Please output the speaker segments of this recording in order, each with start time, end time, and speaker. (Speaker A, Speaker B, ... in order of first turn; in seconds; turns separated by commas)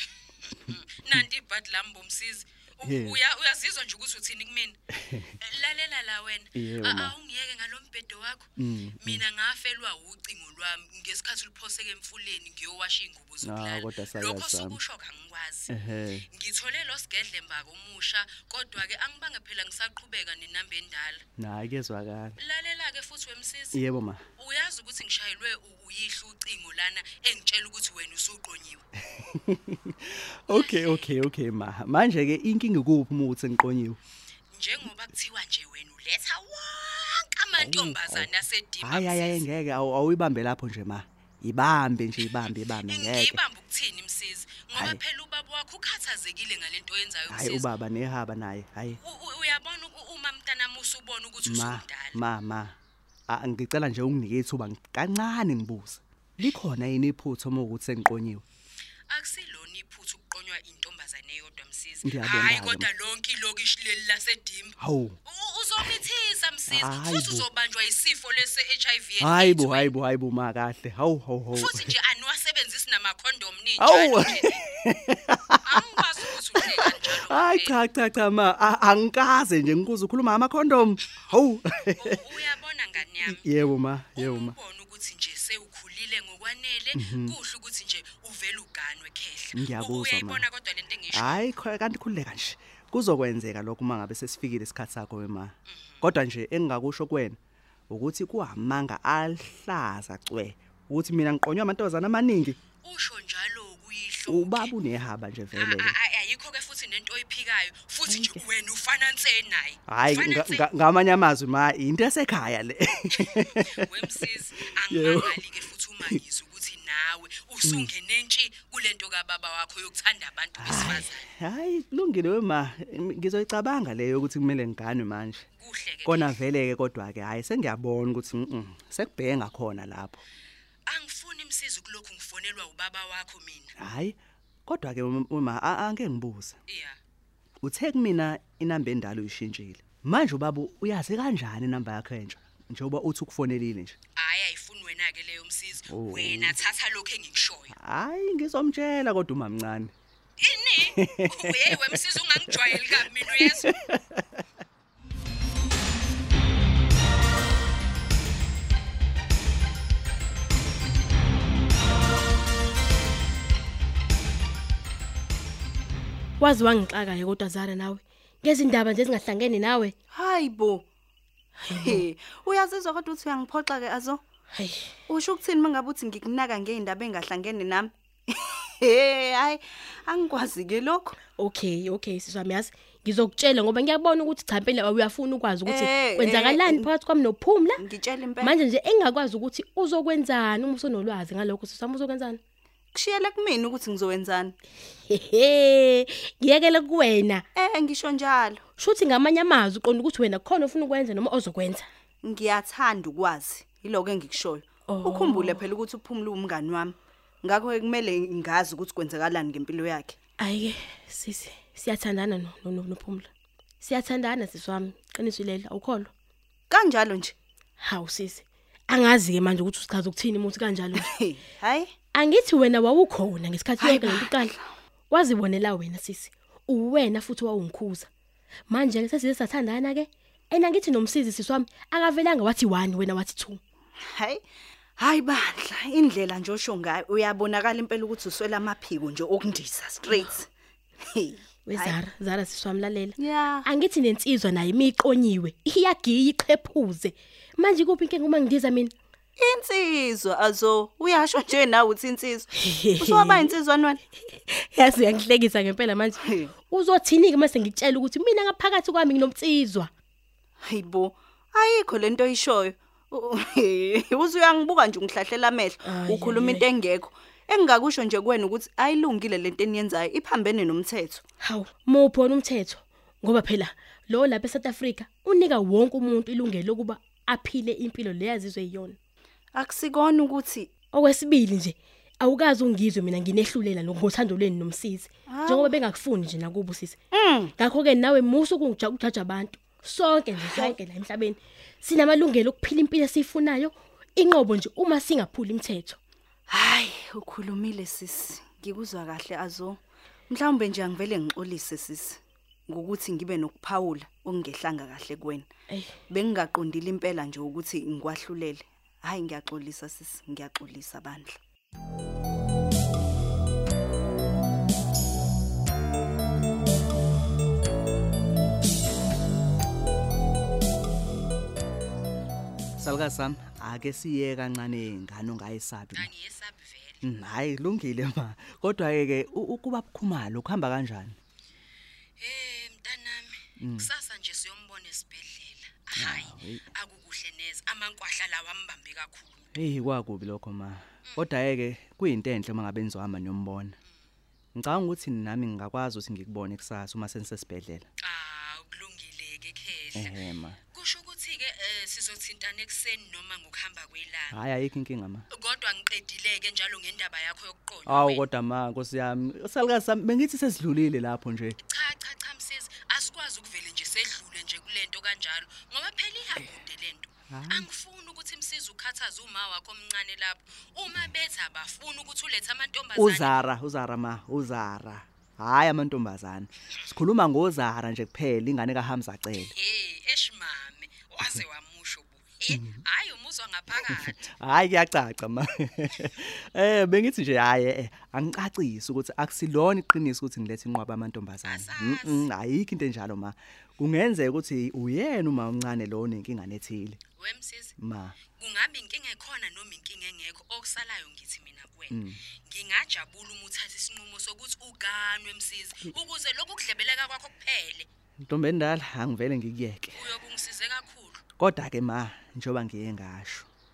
Speaker A: 0.5-4.8, Speaker B: 2.8-3.2, Speaker B: 5.0-5.3, Speaker A: 5.4-8.5, Speaker B: 6.5-7.2, Speaker B: 8.6-9.2, Speaker A: 9.0-15.7, Speaker B: 13.4-14.8, Speaker B: 15.7-16.3, Speaker A: 16.3-21.2, Speaker B: 21.4-22.4, Speaker A: 22.4-23.8, Speaker B: 23.7-24.2, Speaker A: 24.4-28.8, Speaker B: 29.0-34.0, Speaker A: 30.5-31.1, Speaker A: 34.5-39.5, Speaker B: 37.6-38.3, Speaker B: 38.8-43.4, Speaker A: 42.8-47.7, Speaker B: 44.7-45.0, Speaker B: 47.3-49.0, Speaker A: 48.9-52.2, Speaker B: 51.4-52.8, Speaker B: 53.3-58.4, Speaker A: 59.1-69.9, Speaker B: 62.0-62.9, Speaker B: 64.8-65.2, Speaker B: 66.7-67.5, Speaker B: 69.2-71.9, Speaker A: 71.5-74.6, Speaker B: 73.8-75.8, Speaker A: 75.6-77.8, Speaker B: 76.8-82.2, Speaker A: 82.0-83.5, Speaker B: 83.2-84.6, Speaker A: 84.2-91.5, Speaker B: 87.0-87.4, Speaker B: 89.5-90.4, Speaker B: 91.1-97.4, Speaker A: 95.7-96.0, Speaker B: 97.9-102.6, Speaker A: 102.8-104.7, Speaker B: 104.3-105.9, Speaker A: 105.5-110.7, Speaker B: 108.1-108.4, Speaker B: 109.9-113.8, Speaker A: 113.1-121.3, Speaker B: 114.9-115.4, Speaker B: 117.6-117.9, Speaker B: 120.6-125.5, Speaker A: 125.6-126.4, Speaker B: 126.0-130.2, Speaker A: 130.9-133.7, Speaker B: 133.8-134.2, Speaker B: 134.7-136.6, Speaker A: 136.7-137.0, Speaker B: 137.6-144.0, Speaker A: 144.2-147.8, Speaker B: 145.9-146.6, Speaker B: 147.7-149.9, Speaker A: 150.4-153.8, Speaker B: 151.0-152.0, Speaker B: 152.7-154.4, Speaker C: 166.4-169.9, Speaker D: 170.1-170.9, Speaker C: 171.6-172.1, Speaker D: 171.7-174.2, Speaker C: 174.5-174.9, Speaker D: 175.1-181.2, Speaker C: 181.3-187.8, Speaker D: 185.7-186.9, Speaker D: 187.8-188.6, Speaker C: 188.4-192.4, Speaker D: 192.9-194.6, Speaker C: 195.1-197.4, Speaker D: 197.6-198.6, Speaker C: 198.8-201.9, Speaker D: 202.2-210.2, Speaker C: 204.9-205.6, Speaker C: 210.4-213.3, Speaker C: 213.8-216.1, Speaker D: 216.7-217.3, Speaker C: 217.8-221.1, Speaker D: 220.9-221.9, Speaker C: 222.1-224.5, Speaker D: 223.8-224.6, Speaker C: 225.1-228.1, Speaker C: 228.7-233.6, Speaker D: 234.1-234.4, Speaker D: 235.0-240.5, Speaker D: 241.0-242.0, Speaker C: 241.7-248.9, Speaker D: 243.2-243.7, Speaker D: 249.4-254.0, Speaker C: 252.6-253.5, Speaker C: 254.3-259.9, Speaker D: 260.6-271.2, Speaker C: 265.8-266.7, Speaker C: 271.4-279.0, Speaker D: 279.6-280.7, Speaker C: 280.9-287.0, Speaker D: 285.3-285.8, Speaker D: 287.1-287.5, Speaker C: 287.6-296.0, Speaker D: 290.4-290.8, Speaker D: 296.5-305.5, Speaker D: 306.1-311.4, Speaker B: 322.8-326.1, Speaker A: 325.9-327.0, Speaker B: 327.0-331.2, Speaker A: 332.2-339.5, Speaker B: 333.6-333.9, Speaker B: 336.0-336.6, Speaker B: 339.6-343.8, Speaker B: 344.6-347.9, Speaker A: 348.0-350.2, Speaker B: 349.9-350.6, Speaker A: 350.7-354.4, Speaker B: 354.3-355.3, Speaker A: 355.3-358.2, Speaker B: 357.9-361.6, Speaker A: 361.7-373.4, Speaker B: 367.3-367.7, Speaker B: 373.0-379.5, Speaker A: 379.4-384.3, Speaker B: 382.5-382.8, Speaker B: 383.9-397.0, Speaker A: 391.5-392.3, Speaker A: 397.2-397.8, Speaker B: 397.8-398.2, Speaker A: 398.4-407.9, Speaker B: 401.9-402.2, Speaker B: 408.2-410.0, Speaker A: 409.9-411.2, Speaker B: 411.4-413.5